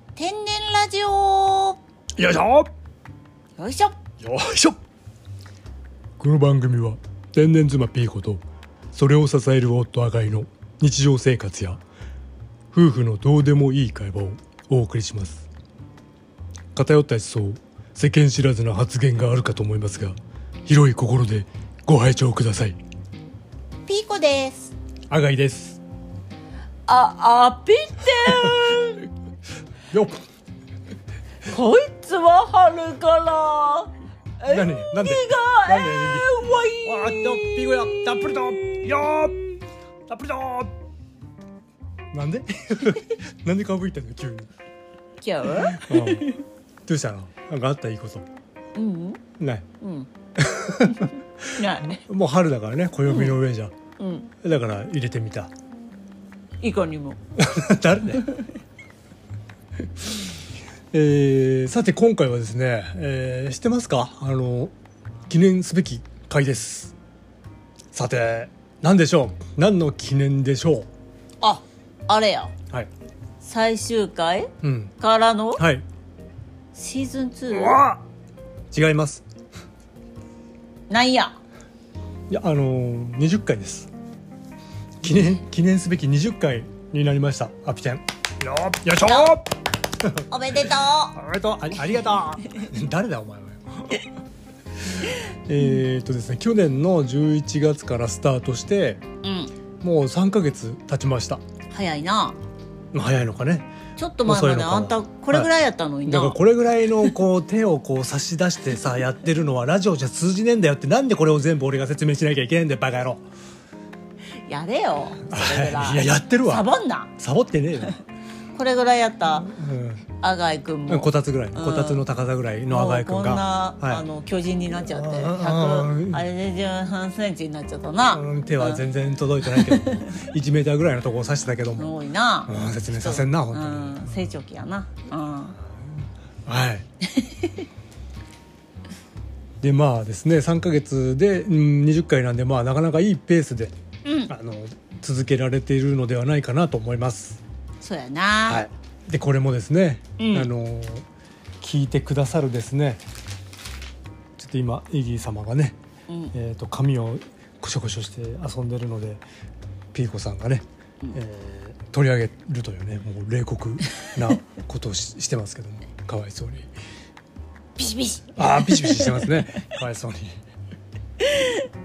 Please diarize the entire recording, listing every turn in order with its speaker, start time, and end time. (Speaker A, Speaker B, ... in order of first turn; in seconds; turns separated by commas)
Speaker A: 0.1-1.8, Speaker B: 2.1-2.7, Speaker A: 3.6-4.0, Speaker B: 4.2-4.8, Speaker B: 6.2-8.4, Speaker B: 8.9-11.8, Speaker B: 12.7-15.5, Speaker B: 16.7-22.8, Speaker A: 23.9-24.7, Speaker B: 25.1-25.8, Speaker A: 26.9-29.1, Speaker B: 28.3-28.6, Speaker B: 29.9-30.2, Speaker A: 31.4-39.2, Speaker B: 34.5-39.5, Speaker B: 40.1-40.7, Speaker B: 42.1-44.5, Speaker A: 45.2-46.4, Speaker B: 45.6-46.3, Speaker B: 46.9-48.2, Speaker A: 48.7-49.2, Speaker B: 49.4-49.7, Speaker A: 49.8-50.1, Speaker B: 50.4-53.7, Speaker A: 51.5-52.0, Speaker A: 53.1-53.4, Speaker A: 54.0-54.3, Speaker B: 54.4-55.5, Speaker A: 56.6-57.2, Speaker B: 57.4-58.3, Speaker A: 58.2-58.5, Speaker B: 60.9-64.7, Speaker B: 65.3-66.9, Speaker B: 67.9-70.9, Speaker A: 71.4-72.5, Speaker A: 73.4-75.6, Speaker B: 74.6-74.9, Speaker B: 75.6-75.8, Speaker A: 76.7-77.8, Speaker B: 77.5-78.0, Speaker B: 78.7-79.2, Speaker A: 80.9-81.4, Speaker B: 82.3-83.9, Speaker B: 85.0-94.0, Speaker A: 89.0-89.3, Speaker A: 90.3-91.2, Speaker B: 94.9-99.0, Speaker A: 99.2-99.5, Speaker B: 99.8-101.4, Speaker A: 101.7-102.4, Speaker B: 102.9-103.7, Speaker A: 104.0-106.4, Speaker B: 104.2-105.5, Speaker B: 106.0-113.2, Speaker A: 114.5-117.1, Speaker B: 115.2-118.0, Speaker A: 118.5-119.5, Speaker B: 119.3-120.0, Speaker A: 120.2-122.0, Speaker B: 120.9-124.0, Speaker A: 122.7-128.8, Speaker B: 124.8-126.2, Speaker B: 128.1-131.9, Speaker A: 129.5-130.2, Speaker A: 131.7-135.6, Speaker B: 132.5-134.2, Speaker B: 136.4-136.8, Speaker A: 137.1-137.7, Speaker B: 139.6-143.7, Speaker A: 144.0-144.3, Speaker B: 144.3-147.4, Speaker A: 147.8-148.7, Speaker B: 148.4-151.0, Speaker A: 150.2-150.5, Speaker B: 151.6-153.0, Speaker B: 154.4-155.8, Speaker A: 156.1-156.3, Speaker B: 156.3-159.2, Speaker B: 159.9-166.7, Speaker A: 167.8-169.6, Speaker B: 168.4-170.4, Speaker A: 171.2-171.7